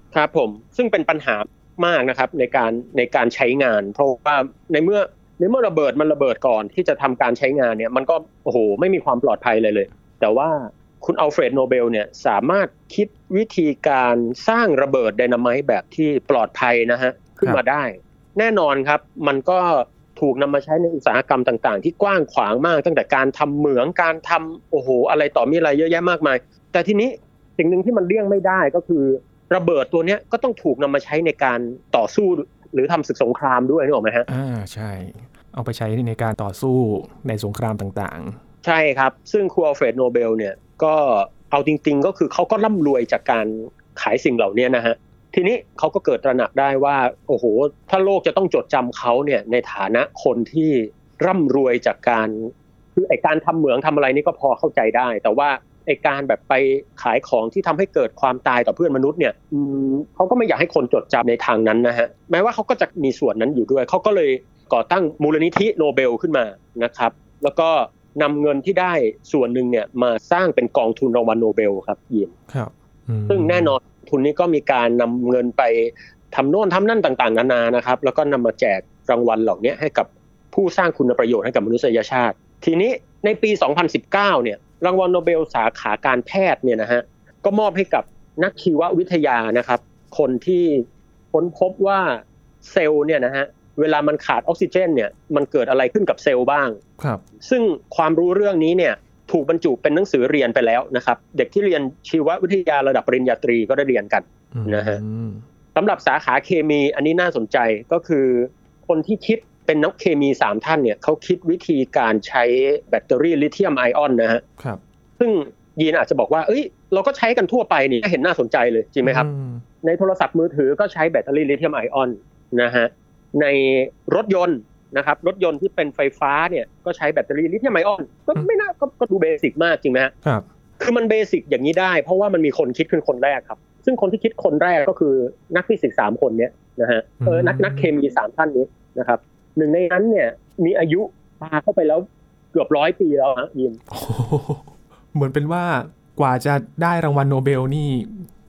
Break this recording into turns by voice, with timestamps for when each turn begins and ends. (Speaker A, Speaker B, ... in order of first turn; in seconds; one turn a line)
Speaker A: 0.1-34.2
Speaker B: 34.3-38.4
Speaker A: 38.6-72.3
Speaker B: 72.5-73.7
Speaker A: 73.3-96.8
Speaker A: 97.4-105.0
Speaker B: 104.5-105.4
Speaker A: 105.7-114.4
Speaker A: 115.2-119.3
Speaker B: 119.0-119.6
Speaker A: 119.8-130.1
Speaker A: 130.8-143.8
Speaker B: 137.2-137.9
Speaker B: 143.9-148.2